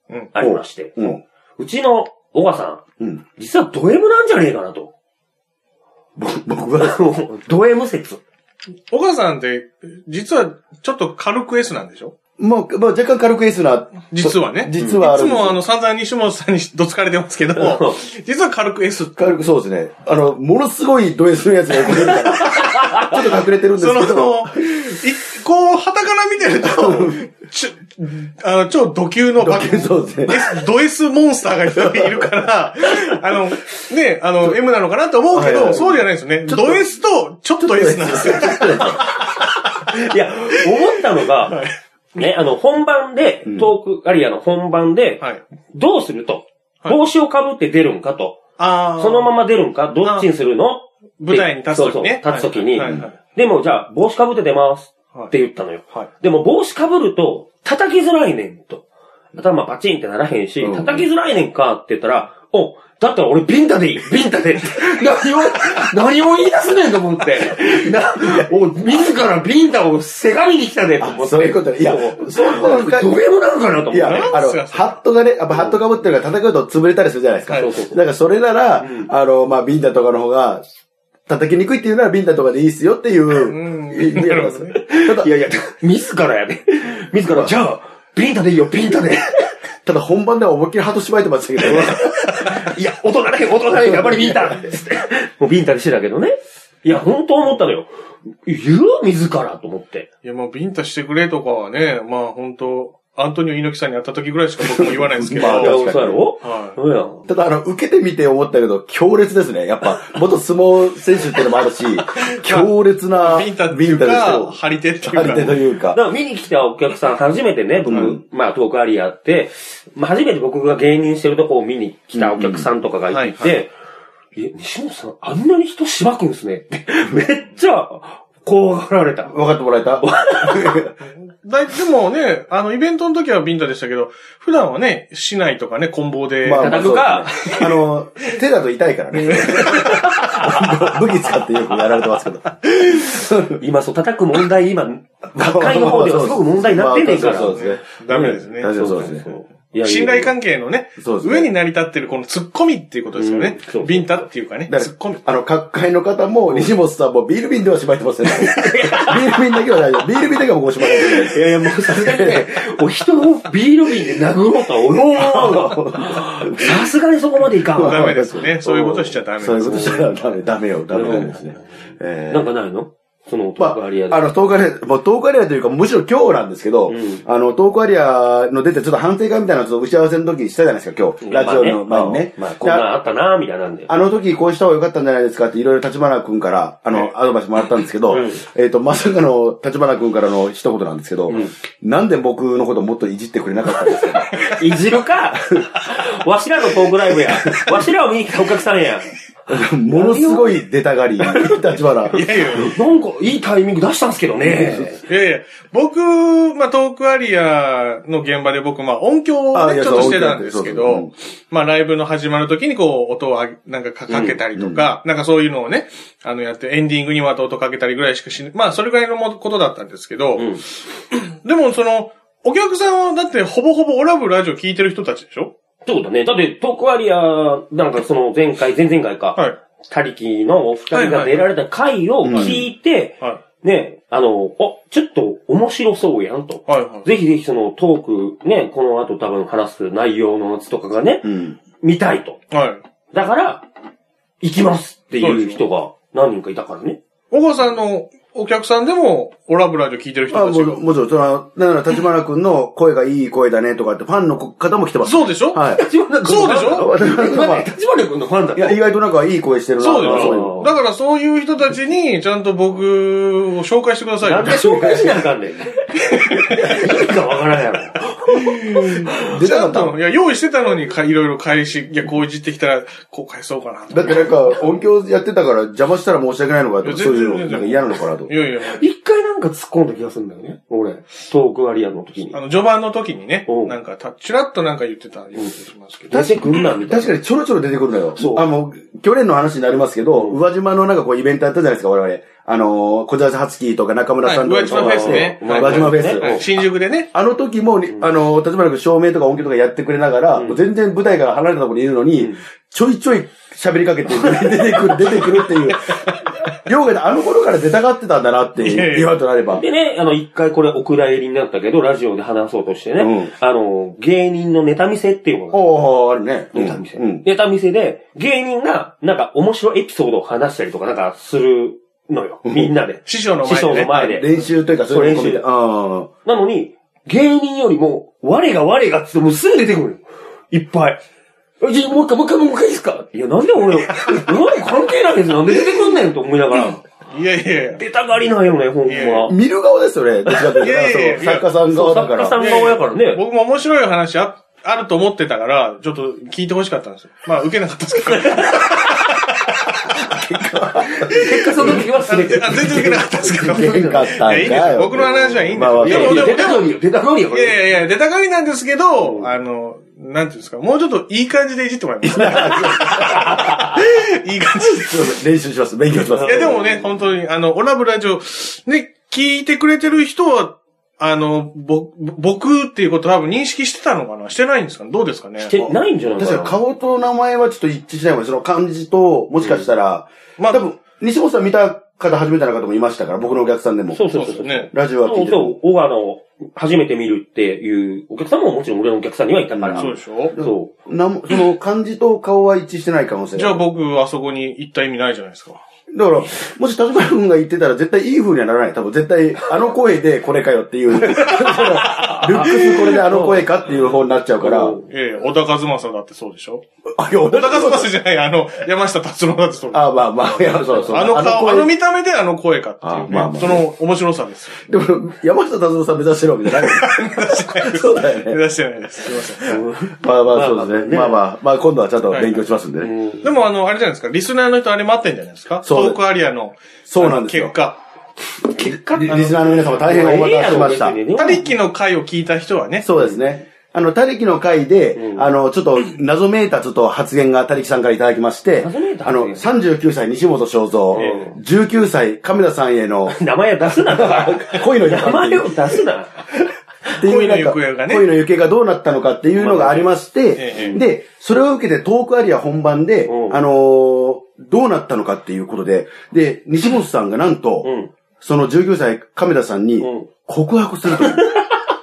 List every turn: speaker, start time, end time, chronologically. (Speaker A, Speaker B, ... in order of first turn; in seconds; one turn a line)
Speaker A: 0.3-2.8
Speaker B: 0.4-1.2
Speaker A: 3.4-4.9
Speaker B: 6.2-7.0
Speaker A: 6.8-8.2
Speaker C: 8.9-12.1
Speaker B: 12.4-15.6
Speaker C: 14.1-19.4
Speaker A: 17.6-18.0
Speaker B: 19.2-24.5
Speaker A: 22.0-23.2
Speaker C: 23.8-39.5
Speaker B: 26.6-27.2
Speaker B: 29.4-30.6
Speaker B: 31.7-32.3
Speaker B: 35.3-36.9
Speaker B: 37.6-39.0
Speaker A: 39.8-41.6
Speaker C: 41.5-42.3
Speaker A: 42.2-48.4
Speaker B: 43.5-43.7
Speaker C: 48.6-49.4
Speaker A: 49.0-58.8
Speaker C: 50.0-50.3
Speaker C: 51.2-53.2
Speaker B: 52.8-53.0
Speaker A: 59.4-74.4
Speaker B: 60.6-61.1
Speaker B: 68.2-68.5
Speaker B: 71.0-73.2
Speaker B: 73.9-80.6
Speaker C: 74.0-75.0
Speaker A: 77.5-78.0
Speaker A: 78.8-79.1
Speaker B: 81.3-85.3
Speaker C: 83.3-84.8
Speaker A: 84.8-89.5
Speaker B: 89.8-92.6
Speaker A: 91.6-97.9
Speaker B: 93.9-94.6
Speaker A: 98.5-100.1
Speaker C: 100.2-105.9
Speaker B: 104.6-106.3
Speaker A: 105.4-107.3
Speaker C: 106.4-106.8
Speaker B: 107.3-116.0
Speaker C: 112.0-115.7
Speaker A: 115.9-123.7
Speaker B: 117.8-118.2
Speaker C: 117.9-118.2
Speaker B: 122.2-122.7
Speaker C: 123.1-123.6
Speaker A: 124.4-129.4
Speaker B: 129.3-130.9
Speaker A: 130.0-130.8
Speaker C: 131.1-136.8
Speaker B: 136.4-143.6
Speaker A: 136.6-137.7
Speaker A: 139.1-140.9
Speaker C: 139.2-140.0
Speaker A: 143.6-150.3
Speaker B: 145.3-149.3
Speaker C: 147.2-155.2
Speaker B: 151.0-151.5
Speaker A: 153.2-154.3
Speaker B: 154.7-162.5
Speaker A: 158.3-159.6
Speaker A: 160.8-168.2
Speaker B: 165.1-166.9
Speaker C: 167.7-170.3
Speaker B: 167.8-172.5
Speaker A: 169.7-170.0
Speaker A: 170.9-174.3
Speaker C: 171.0-171.4
Speaker B: 173.6-182.9
Speaker A: 176.9-177.2
Speaker A: 181.2-183.9
Speaker B: 183.9-194.5
Speaker A: 188.1-188.4
Speaker A: 191.3-191.5
Speaker A: 193.8-199.2
Speaker B: 197.5-197.7
Speaker B: 199.5-202.6
Speaker A: 199.9-200.6
Speaker A: 201.2-201.6
Speaker C: 202.1-202.8
Speaker A: 202.1-205.0
Speaker B: 204.4-204.9
Speaker C: 205.1-220.6
Speaker B: 209.5-211.1
Speaker A: 214.1-214.4
Speaker B: 214.5-214.9
Speaker A: 220.4-220.6
Speaker C: 221.1-225.5
Speaker A: 225.8-241.3
Speaker C: 230.9-231.5
Speaker B: 232.2-232.7
Speaker C: 232.3-232.6
Speaker C: 236.7-237.1
Speaker B: 241.2-241.6
Speaker A: 241.8-242.4
Speaker C: 242.5-242.8
Speaker A: 243.1-243.7
Speaker A: 244.4-247.0
Speaker C: 245.2-245.6
Speaker C: 247.3-250.8
Speaker B: 250.3-255.8
Speaker C: 255.0-255.7
Speaker A: 255.7-258.8
Speaker C: 256.2-256.9
Speaker B: 256.8-257.7
Speaker B: 258.6-260.6
Speaker C: 259.8-265.2
Speaker A: 260.0-260.7
Speaker A: 264.2-269.4
Speaker C: 266.3-267.0
Speaker C: 268.3-274.5
Speaker B: 269.2-270.0
Speaker B: 273.9-278.3
Speaker C: 276.8-278.9
Speaker A: 278.6-282.4
Speaker C: 282.3-286.7
Speaker A: 283.5-283.8
Speaker A: 286.1-287.1
Speaker B: 286.1-296.5
Speaker A: 288.1-288.4
Speaker A: 290.1-290.4
Speaker C: 294.2-297.1
Speaker A: 294.7-296.4
Speaker B: 297.1-309.6
Speaker A: 300.4-300.6
Speaker A: 302.2-302.4
Speaker A: 304.2-305.3
Speaker C: 305.7-306.2
Speaker C: 308.6-309.1
Speaker A: 309.5-315.6
Speaker B: 313.0-313.3
Speaker B: 315.5-317.2
Speaker A: 316.5-324.3
Speaker C: 323.1-324.0
Speaker B: 323.7-326.1
Speaker A: 324.9-325.4
Speaker A: 326.2-331.0
Speaker A: 331.6-336.8
Speaker C: 337.1-337.8
Speaker A: 337.8-339.4
Speaker C: 338.9-339.3
Speaker B: 339.3-342.4
Speaker C: 340.6-341.5
Speaker A: 341.7-343.2
Speaker C: 342.4-350.2
Speaker A: 348.2-348.9
Speaker B: 350.1-351.9
Speaker A: 350.8-357.6
Speaker C: 351.6-356.7
Speaker B: 353.4-356.4
Speaker C: 357.3-365.2
Speaker A: 359.0-359.3
Speaker B: 362.0-363.8
Speaker A: 363.1-363.6
Speaker B: 364.6-366.9
Speaker A: 366.0-366.8
Speaker C: 366.2-375.6
Speaker A: 375.4-376.6
Speaker B: 375.6-384.0
Speaker A: 379.4-379.7
Speaker C: 380.4-380.7
Speaker A: 383.9-390.7
Speaker C: 384.1-384.7
Speaker B: 384.7-385.6
Speaker B: 389.5-393.6
Speaker C: 389.8-390.4
Speaker C: 393.4-395.6
Speaker B: 395.9-404.8
Speaker A: 401.2-403.8
Speaker A: 404.4-404.9
Speaker C: 404.9-406.6
Speaker B: 406.9-407.9
Speaker C: 407.3-409.9
Speaker B: 409.7-411.7
Speaker A: 410.7-411.0
Speaker C: 410.9-414.7
Speaker B: 412.8-413.7
Speaker B: 414.7-418.4
Speaker C: 416.5-419.6
Speaker A: 419.4-421.2
Speaker B: 420.0-422.9
Speaker C: 422.1-422.5
Speaker A: 422.8-423.4
Speaker C: 423.2-427.8
Speaker B: 425.6-426.0
Speaker B: 426.9-427.6
Speaker A: 428.4-429.3
Speaker B: 428.6-431.0
Speaker C: 429.1-429.9
Speaker A: 429.8-431.6
Speaker C: 431.2-432.9
Speaker B: 432.8-445.8
Speaker A: 435.0-435.3
Speaker A: 438.6-439.5
Speaker C: 440.9-441.3
Speaker A: 440.9-441.4
Speaker A: 443.1-446.2
Speaker C: 446.9-448.1
Speaker B: 447.0-457.7
Speaker A: 449.4-449.8
Speaker C: 449.4-450.8
Speaker A: 450.5-450.8
Speaker A: 453.1-453.4
Speaker A: 457.6-457.9
Speaker B: 458.2-461.3
Speaker A: 459.8-460.1
Speaker A: 461.0-461.7